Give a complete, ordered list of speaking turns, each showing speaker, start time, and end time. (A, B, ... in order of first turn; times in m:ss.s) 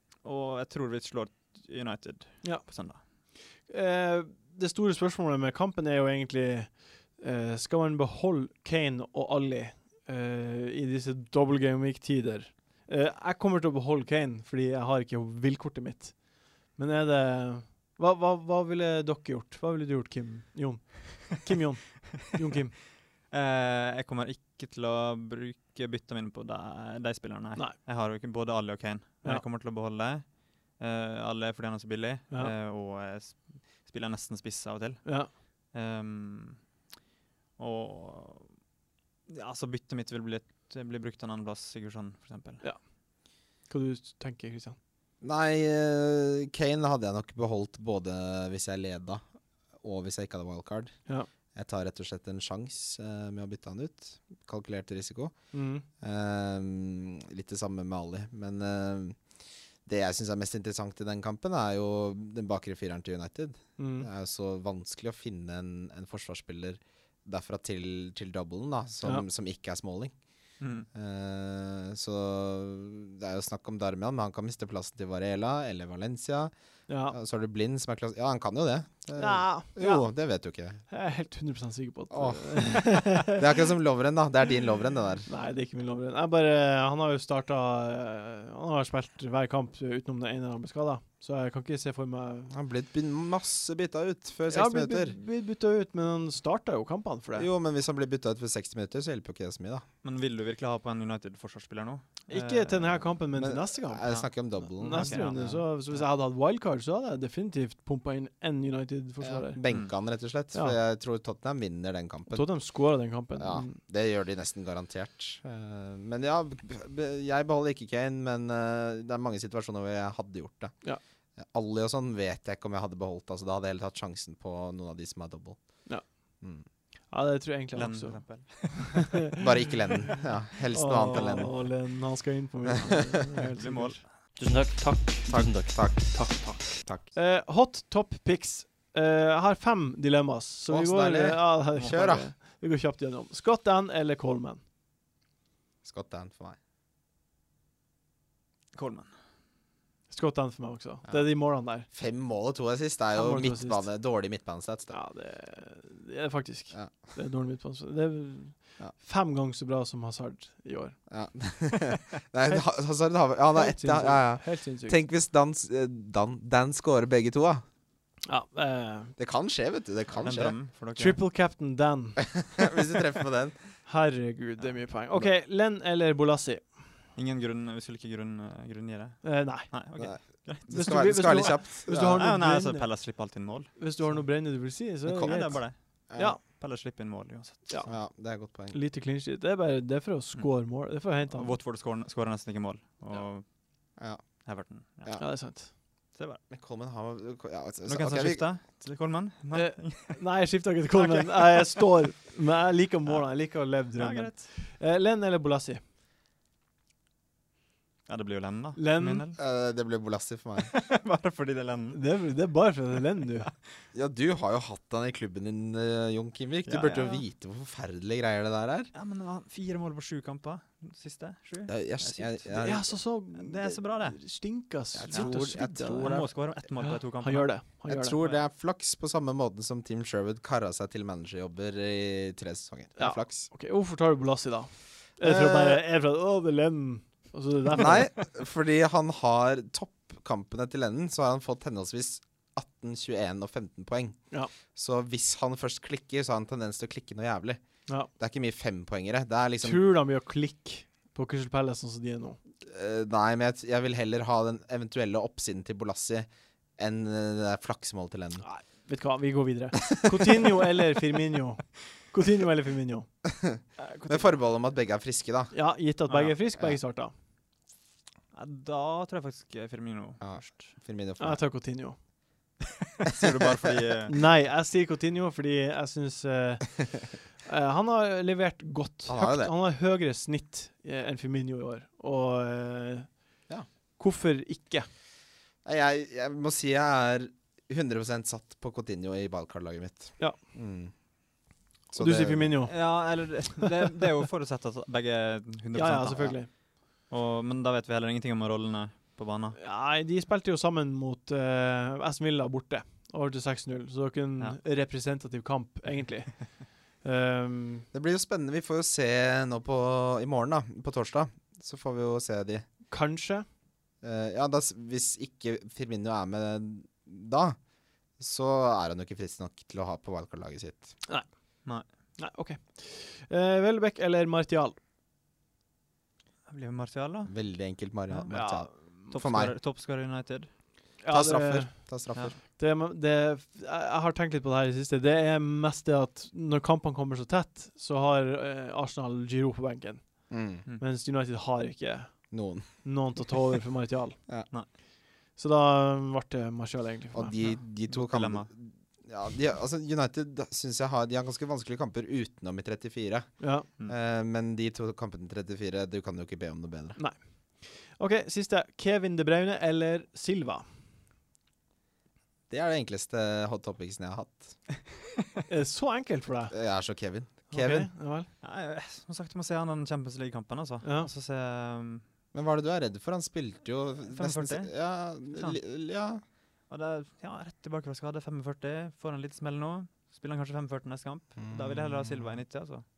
0:00.2-0:03.0 A
0:02.4-0:22.8 B
0:23.3-0:36.6 A
0:35.0-0:35.3 B
0:37.6-0:38.5 A
0:39.3-0:42.6 A
0:43.6-0:44.8 B
0:45.2-0:49.2 C
0:49.8-0:51.0 C
0:51.5-0:55.3 C
0:55.5-0:55.8 B
0:56.0-0:59.2 C
0:59.8-1:10.1 C
1:03.8-1:04.1 B
1:10.6-1:10.9 A
1:10.9-1:16.5 C
1:16.9-1:17.2 B
1:17.1-1:20.8 C
1:19.2-1:20.1 B
1:20.9-1:23.4 B
1:22.1-1:25.3 C
1:25.2-1:32.5 B
1:32.5-1:35.2 C
1:34.5-1:37.5 B
1:37.4-1:39.8 C
1:40.0-1:43.0 A
1:42.3-1:49.6 B
1:43.4-1:45.7 C
1:44.0-1:44.3 A
1:44.8-1:45.4 A
1:49.2-1:52.5 C
1:52.3-1:53.8 B
1:53.4-2:00.7 C
2:01.4-2:05.8 C
2:07.1-2:09.4 B
2:07.7-2:09.1 A
2:09.4-2:11.6 C
2:10.7-2:14.0 B
2:13.6-2:14.1 A
2:14.4-2:16.5 D
2:15.3-2:17.1 C
2:16.1-2:24.6 B
2:20.7-2:22.3 C
2:25.8-2:26.6 C
2:28.7-2:29.1 A
2:30.1-2:31.9 B
2:31.1-2:34.9 C
2:33.1-2:33.9 B
2:34.9-2:41.0 B
2:41.1-2:47.6 C
2:43.5-2:45.0 B
2:48.2-2:49.1 B
2:49.2-2:50.6 C
2:50.2-2:51.2 A
2:51.0-2:52.3 B
2:52.2-2:53.6 C
2:53.8-2:56.7 B
2:57.1-3:04.2 A
2:59.2-2:59.7 B
3:00.0-3:02.3 C
3:00.7-3:03.0 B
3:03.8-3:06.4 B
3:05.1-3:07.8 A
3:06.1-3:06.4 C
3:07.8-3:08.8 C
3:08.7-3:11.6 B
3:11.1-3:13.4 A
3:14.0-3:14.4 C
3:14.4-3:15.3 A
3:15.2-3:15.7 B
3:16.1-3:16.4 A
3:16.5-3:18.4 C
3:17.8-3:20.2 A
3:19.5-3:25.8 B
3:20.9-3:21.8 A
3:24.0-3:24.5 A
3:28.1-3:29.4 A
3:28.8-3:29.2 B
3:29.4-3:30.7 C
3:30.6-3:32.0 A
3:31.9-3:33.5 B
3:33.9-3:38.9 C
3:36.7-3:37.2 A
3:38.9-3:44.2 A
3:41.7-3:42.9 C
3:42.6-3:48.2 B
3:44.9-3:46.3 C
3:45.1-3:47.6 A
3:47.9-3:53.5 C
3:53.0-3:58.1 B
3:55.2-3:55.8 C
3:57.8-4:07.6 C
4:08.2-4:09.9 C
4:09.6-4:12.4 B
4:12.6-4:16.3 C
4:16.8-4:18.4 C
4:18.4-4:23.1 B
4:23.3-4:25.5 C
4:23.8-4:24.2 B
4:25.5-4:27.1 B
4:26.1-4:26.4 A
4:28.3-4:30.7 A
4:30.2-4:31.4 C
4:31.2-4:32.0 B
4:32.6-4:34.2 A
4:34.1-4:43.1 B
4:39.1-4:39.5 C
4:44.0-4:44.9 B
4:45.6-4:50.9 C
4:51.9-4:52.6 C
4:52.0-4:52.8 B
4:52.7-4:59.6 A
4:55.7-4:56.5 B
4:59.6-5:07.8 B
5:07.9-5:12.6 C
5:12.9-5:13.4 B
5:14.0-5:17.6 C
5:18.2-5:20.9 C
5:22.2-5:24.8 B
5:26.5-5:27.3 A
5:27.3-5:29.5 C
5:28.1-5:29.1 B
5:29.1-5:30.5 A
5:31.0-5:31.9 B
5:31.1-5:32.4 C
5:32.4-5:44.2 B
5:40.3-5:40.6 C
5:42.3-5:42.8 C
5:45.4-5:47.4 B
5:47.1-5:57.0 C
5:47.4-5:48.5 A
5:53.4-5:53.7 B
5:57.0-6:00.6 B
6:02.5-6:04.6 C
6:05.5-6:06.5 B
6:06.5-6:07.9 C
6:07.5-6:08.3 B
6:08.4-6:12.0 A
6:10.8-6:11.1 B
6:12.3-6:16.2 C
6:14.1-6:15.6 A
6:16.7-6:22.8 A
6:21.4-6:22.4 C